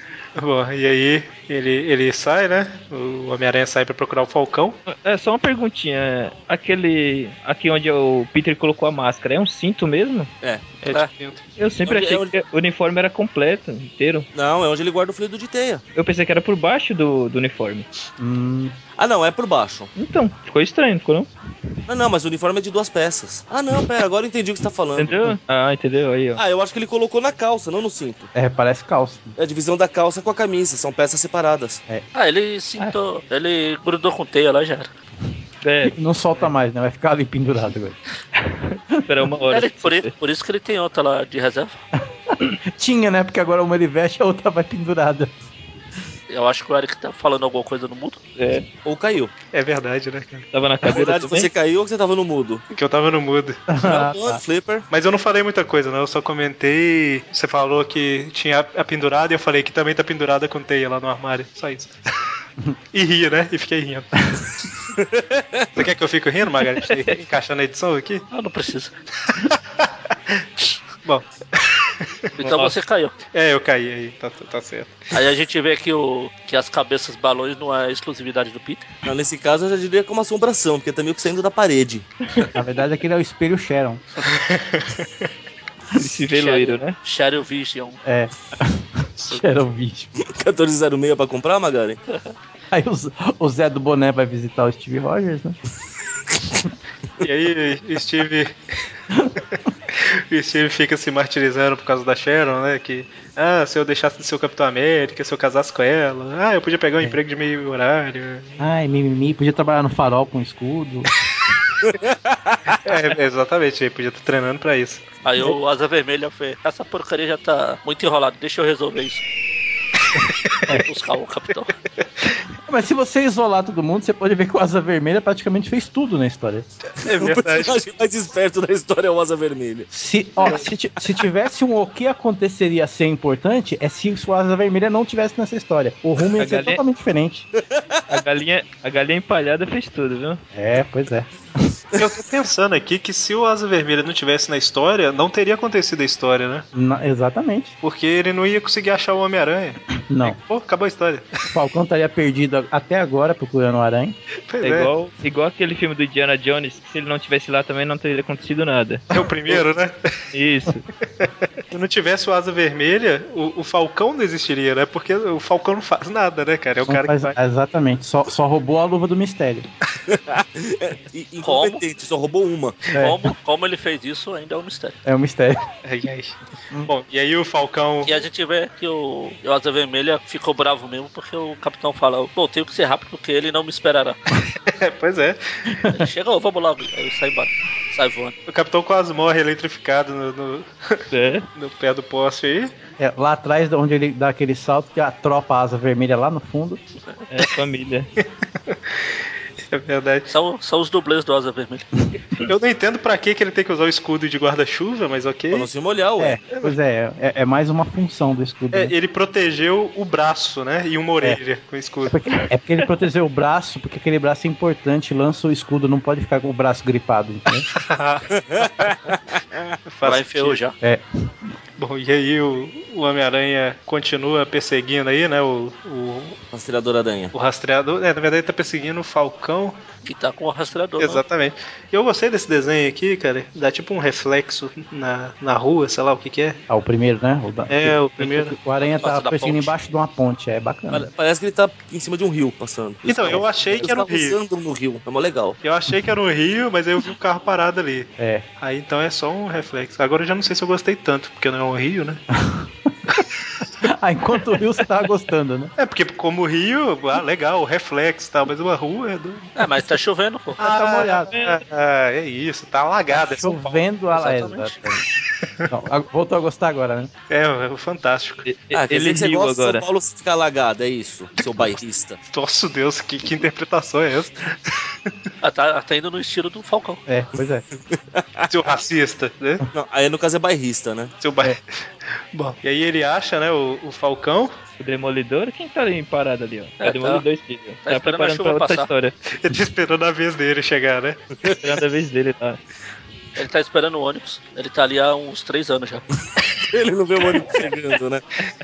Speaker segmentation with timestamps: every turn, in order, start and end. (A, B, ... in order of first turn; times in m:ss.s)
0:00.4-0:04.8 A
0:04.9-0:10.3 B
0:10.8-0:11.4 A
0:11.6-0:14.3 B
0:11.8-0:12.3 C
0:14.3-0:15.8 C
0:16.0-0:17.9 B
0:18.2-0:18.8 D
0:19.0-0:19.9 C
0:20.0-0:21.3 B
0:21.9-0:25.4 C
0:25.0-0:26.4 B
0:26.4-0:28.3 C
0:28.3-0:29.4 D
0:29.4-0:31.8 C
0:32.1-0:34.9 E
0:35.6-0:36.0 B
0:35.8-0:38.0 D
0:39.1-0:40.1 B
0:39.4-0:41.8 E
0:42.3-0:45.3 D
0:46.3-0:48.2 E
0:48.4-0:48.7 B
0:48.8-0:49.3 C
0:49.5-0:50.5 A
0:50.5-0:51.5 B
0:50.8-0:52.6 C
0:52.7-0:53.6 A
0:53.7-0:54.4 D
0:53.8-0:54.9 C
0:54.9-1:01.9 A
1:02.9-1:04.3 A
1:05.0-1:05.7 C
1:05.8-1:08.3 A
1:08.3-1:08.9 E
1:09.3-1:10.4 A
1:11.0-1:12.6 A
1:12.4-1:13.1 E
1:12.4-1:12.7 B
1:13.3-1:15.1 A
1:15.1-1:18.9 E
1:19.0-1:22.1 C
1:22.5-1:24.0 D
1:24.4-1:25.1 A
1:25.9-1:27.0 B
1:26.3-1:28.0 E
1:28.0-1:30.1 D
1:29.2-1:29.6 A
1:30.2-1:32.0 C
1:32.7-1:35.6 D
1:37.2-1:38.6 A
1:39.5-1:48.6 A
1:48.6-1:51.1 D
1:51.8-1:52.8 C
1:52.8-1:55.1 A
1:55.2-1:59.2 E
2:00.7-2:01.7 E
2:02.7-2:06.7 D
2:07.0-2:07.8 A
2:07.2-2:09.9 C
2:09.9-2:17.5 D
2:16.4-2:16.8 B
2:18.1-2:20.4 B
2:20.5-2:21.7 D
2:22.0-2:26.7 A
2:26.7-2:27.7 D
2:27.8-2:31.3 A
2:30.1-2:30.4 D
2:31.5-2:34.2 D
2:34.5-2:34.9 A
2:34.6-2:39.6 B
2:39.1-2:40.0 A
2:40.3-2:40.8 B
2:41.2-2:47.4 A
2:46.8-2:49.7 D
2:50.1-2:52.8 C
2:51.4-2:51.8 E
2:52.9-2:53.2 D
2:53.0-2:55.0 E
2:55.0-2:55.6 D
2:55.8-2:58.1 A
2:58.0-3:04.2 E
3:04.7-3:05.4 A
3:05.8-3:06.1 D
3:05.9-3:08.4 E
3:08.5-3:11.0 A
3:11.1-3:11.5 B
3:11.6-3:12.7 A
3:13.0-3:16.8 D
3:17.3-3:18.1 B
3:19.7-3:20.3 A
3:20.3-3:21.9 E
3:22.4-3:25.7 A
3:25.5-3:26.4 C
3:26.2-3:28.9 D
3:28.7-3:32.2 A
3:32.1-3:37.7 D
3:37.8-3:39.0 A
3:38.4-3:39.7 C
3:39.9-3:40.6 A
3:40.0-3:40.8 E
3:40.8-3:41.3 D
3:41.8-3:46.4 A
3:46.5-3:47.3 C
3:47.3-3:49.8 A
3:50.0-3:51.2 E
3:51.0-3:56.6 A
3:56.7-4:01.1 D
3:57.7-3:58.6 A
3:58.8-3:59.7 E
4:00.9-4:05.6 C
4:03.1-4:04.4 A
4:05.6-4:12.2 A
4:08.2-4:08.4 D
4:12.3-4:12.9 D
4:13.8-4:15.7 D
4:15.8-4:19.6 A
4:19.6-4:20.6 E
4:20.6-4:21.3 D
4:20.6-4:23.8 A
4:21.3-4:21.6 B
4:23.1-4:25.0 D
4:24.1-4:24.8 E
4:25.7-4:27.1 D
4:27.3-4:28.4 A
4:28.5-4:29.9 B
4:28.7-4:32.2 C
4:32.3-4:35.1 A
4:35.4-4:37.0 E
4:37.1-4:37.6 D
4:37.8-4:38.5 C
4:38.5-4:39.6 A
4:39.7-4:41.1 C
4:41.2-4:41.6 A
4:42.3-4:44.6 A
4:44.8-4:49.2 B
4:46.8-4:47.2 E
4:47.8-4:48.9 E
4:49.3-4:51.2 A
4:51.4-4:51.8 C
4:51.6-4:52.6 B
4:53.4-4:56.1 E
4:56.7-4:58.2 C